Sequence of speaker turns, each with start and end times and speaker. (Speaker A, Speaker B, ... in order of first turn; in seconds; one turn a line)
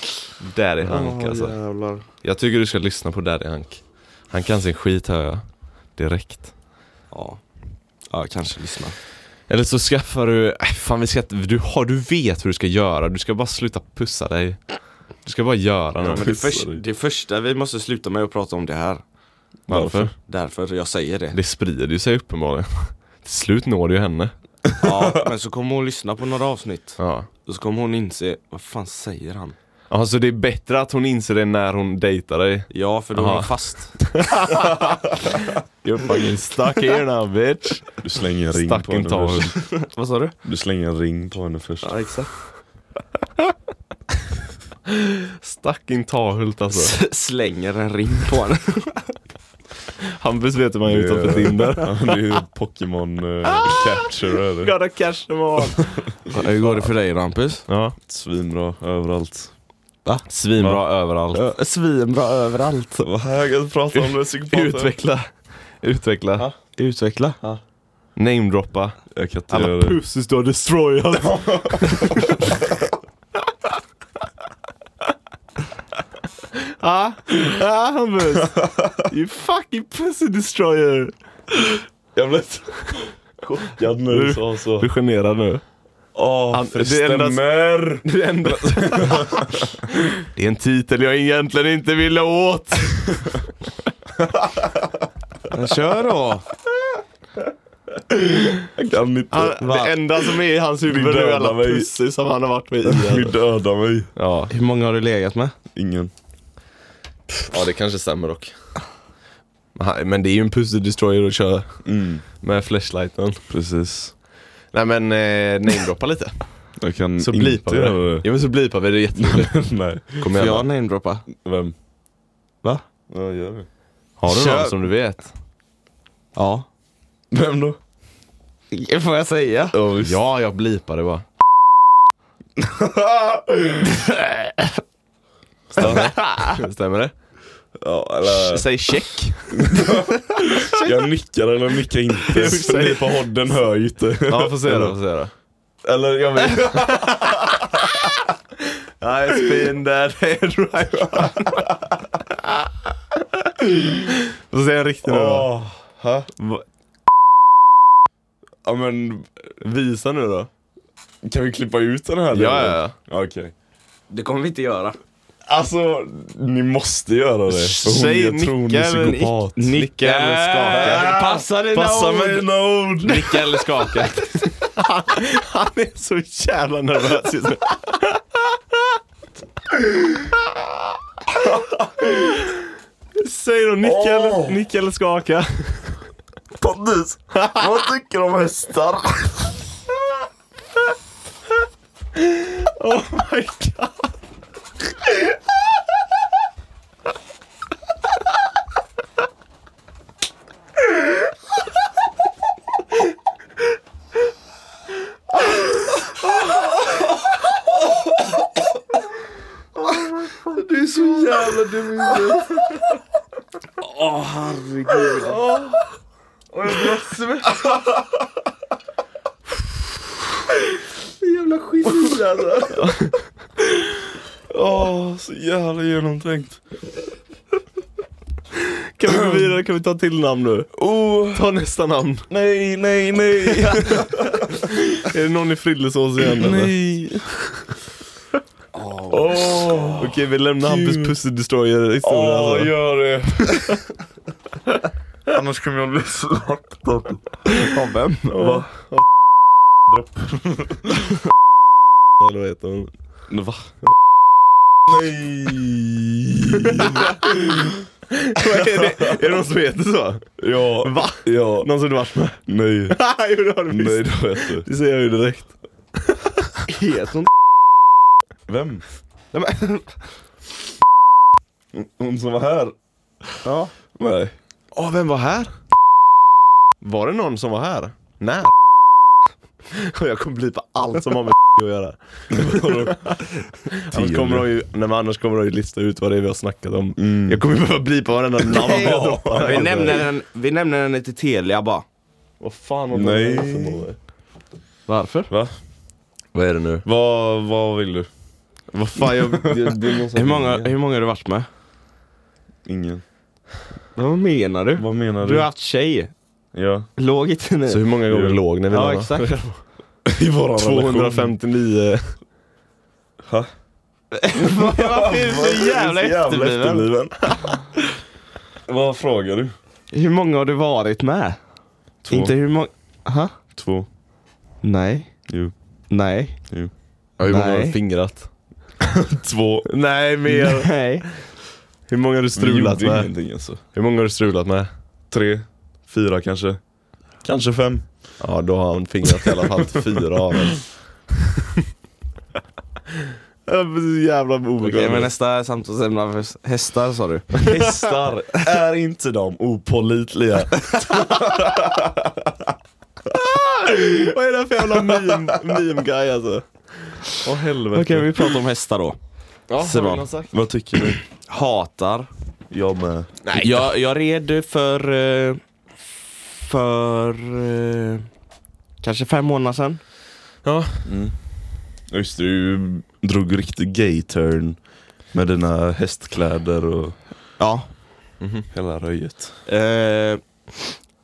Speaker A: 0.4-1.6
Speaker B: 0.8-2.0
Speaker A: 2.2-6.5
Speaker B: 7.1-7.4
Speaker B: 8.1-9.0
Speaker A: 9.5-14.7
Speaker A: 15.2-16.3
Speaker C: 16.0-16.8
Speaker B: 16.1-19.0
Speaker A: 19.7-20.1
Speaker C: 19.7-20.1
Speaker B: 20.1-21.4
Speaker A: 21.3-24.3
Speaker B: 24.8-29.6
Speaker A: 27.0-27.3
Speaker A: 29.9-38.0
Speaker B: 32.7-34.2
Speaker C: 38.0-39.6
Speaker A: 38.5-39.5
Speaker B: 39.5-40.3
Speaker C: 40.4-41.9
Speaker B: 41.8-42.3
Speaker A: 45.4-46.9
Speaker B: 46.7-49.1
Speaker A: 50.1-51.9
Speaker C: 50.9-54.7
Speaker A: 53.6-54.1
Speaker A: 54.6-56.1
Speaker B: 56.3-57.6
Speaker A: 57.7-58.0
Speaker C: 58.1-59.5
Speaker A: 60.3-61.5
Speaker B: 61.3-63.1
Speaker C: 63.1-64.9
Speaker A: 63.9-66.5
Speaker B: 66.4-67.4
Speaker A: 68.2-72.4
Speaker C: 69.1-70.0
Speaker C: 71.2-71.8
Speaker A: 76.8-81.7
Speaker C: 78.4-78.9
Speaker C: 82.1-84.9
Speaker A: 84.1-85.6
Speaker C: 86.1-89.5
Speaker A: 86.5-89.6
Speaker A: 90.2-93.3
Speaker B: 95.5-96.4
Speaker C: 98.6-99.6
Speaker A: 99.3-103.3
Speaker B: 99.6-99.9
Speaker C: 100.9-101.9
Speaker C: 102.8-104.1
Speaker A: 104.1-104.5
Speaker B: 104.5-105.5
Speaker C: 105.7-106.1
Speaker A: 107.5-108.5
Speaker A: 109.7-113.4
Speaker C: 111.8-112.2
Speaker C: 113.5-114.1
Speaker A: 114.7-120.7
Speaker C: 116.8-118.3
Speaker C: 119.1-120.3
Speaker B: 120.3-121.3
Speaker C: 121.3-121.7
Speaker C: 123.1-123.7
Speaker A: 124.2-125.3
Speaker B: 124.3-124.8
Speaker B: 126.3-126.7
Speaker C: 127.3-127.8
Speaker B: 128.7-129.8
Speaker C: 129.7-130.2
Speaker A: 130.0-131.2
Speaker C: 132.6-133.8
Speaker C: 135.7-136.1
Speaker A: 135.8-137.1
Speaker B: 135.9-136.5
Speaker C: 137.8-138.7
Speaker A: 138.3-139.6
Speaker C: 139.5-144.9
Speaker A: 142.3-143.2
Speaker A: 144.3-145.3
Speaker C: 145.8-147.9
Speaker A: 146.6-147.6
Speaker A: 149.0-151.8
Speaker A: 153.6-155.5
Speaker C: 155.0-156.3
Speaker C: 158.6-159.4
Speaker A: 159.6-160.5
Speaker C: 161.2-163.5
Speaker A: 162.3-162.9
Speaker B: 164.1-165.0
Speaker C: 165.5-169.5
Speaker A: 167.5-171.1
Speaker B: 169.0-172.5
Speaker C: 170.7-173.5
Speaker A: 173.0-178.6
Speaker A: 182.0-182.6
Speaker A: 183.2-186.0
Speaker C: 183.8-184.6
Speaker C: 186.6-189.5
Speaker A: 187.3-187.6
Speaker A: 192.2-194.1
Speaker B: 210.4-212.4
Speaker C: 210.8-212.5
Speaker A: 212.4-212.8
Speaker B: 213.8-215.4
Speaker A: 216.6-217.4
Speaker B: 221.2-222.7
Speaker C: 221.8-222.7
Speaker A: 222.7-223.2
Speaker C: 224.5-226.6
Speaker A: 228.9-232.3
Speaker C: 230.7-231.4
Speaker C: 232.3-234.5
Speaker A: 233.5-236.8
Speaker C: 236.2-237.3
Speaker B: 238.7-239.9
Speaker C: 239.1-241.2
Speaker A: 240.0-242.7
Speaker C: 242.0-243.7
Speaker C: 245.3-247.4
Speaker B: 247.6-248.5
Speaker A: 248.3-249.0
Speaker C: 248.4-248.6
Speaker C: 249.9-250.9
Speaker A: 252.2-252.9
Speaker C: 253.3-253.7
Speaker C: 254.9-257.7
Speaker A: 256.6-257.3
Speaker A: 258.1-265.6
Speaker C: 260.4-261.7
Speaker C: 262.4-263.0
Speaker C: 263.7-264.7
Speaker B: 266.7-267.3
Speaker C: 268.5-268.8
Speaker B: 269.3-270.0
Speaker C: 271.7-272.7
Speaker B: 273.4-273.7
Speaker C: 273.9-274.3
Speaker A: 274.7-275.5
Speaker A: 276.8-278.5
Speaker A: 279.7-290.0
Speaker C: 282.3-283.0
Speaker C: 283.9-284.5
Speaker C: 287.0-287.4
Speaker B: 288.5-291.8
Speaker C: 288.6-290.1
Speaker A: 292.4-294.0
Speaker C: 292.9-293.9
Speaker B: 294.9-295.3
Speaker C: 295.3-295.5
Speaker A: 296.3-296.8
Speaker C: 296.8-298.1
Speaker C: 298.7-300.7
Speaker A: 298.9-299.8
Speaker B: 300.1-301.5
Speaker C: 302.6-303.0
Speaker B: 303.9-306.1
Speaker C: 304.8-305.5
Speaker C: 306.5-306.9
Speaker B: 307.0-307.9
Speaker A: 307.7-309.6
Speaker C: 308.1-308.4
Speaker B: 308.7-309.4
Speaker C: 310.1-311.3
Speaker A: 310.6-312.2
Speaker B: 314.1-317.0
Speaker C: 314.4-317.3
Speaker C: 318.6-319.5
Speaker B: 319.9-321.4
Speaker C: 322.0-322.3
Speaker B: 322.1-323.3
Speaker C: 323.6-323.9
Speaker B: 324.6-325.2
Speaker B: 325.9-326.4
Speaker A: 327.2-328.3
Speaker B: 327.3-327.8
Speaker C: 328.9-329.7
Speaker A: 329.6-330.9
Speaker B: 330.3-331.0
Speaker A: 331.9-334.7
Speaker C: 332.3-333.6
Speaker C: 335.1-336.6
Speaker C: 337.2-338.2
Speaker A: 338.2-340.9
Speaker A: 343.4-345.1
Speaker B: 344.6-347.6
Speaker C: 344.7-345.0
Speaker C: 347.4-352.1
Speaker A: 353.1-358.1
Speaker B: 357.7-359.0
Speaker A: 359.5-360.3
Speaker B: 359.6-360.1
Speaker C: 360.3-361.0
Speaker B: 361.3-362.1
Speaker C: 362.5-363.1
Speaker A: 363.2-363.7
Speaker B: 363.3-365.4
Speaker B: 366.3-368.0
Speaker B: 368.8-369.8
Speaker A: 370.4-370.9
Speaker C: 370.8-371.1
Speaker C: 371.9-377.0
Speaker B: 377.4-377.7
Speaker A: 378.2-378.5
Speaker C: 378.5-379.4
Speaker B: 379.4-380.8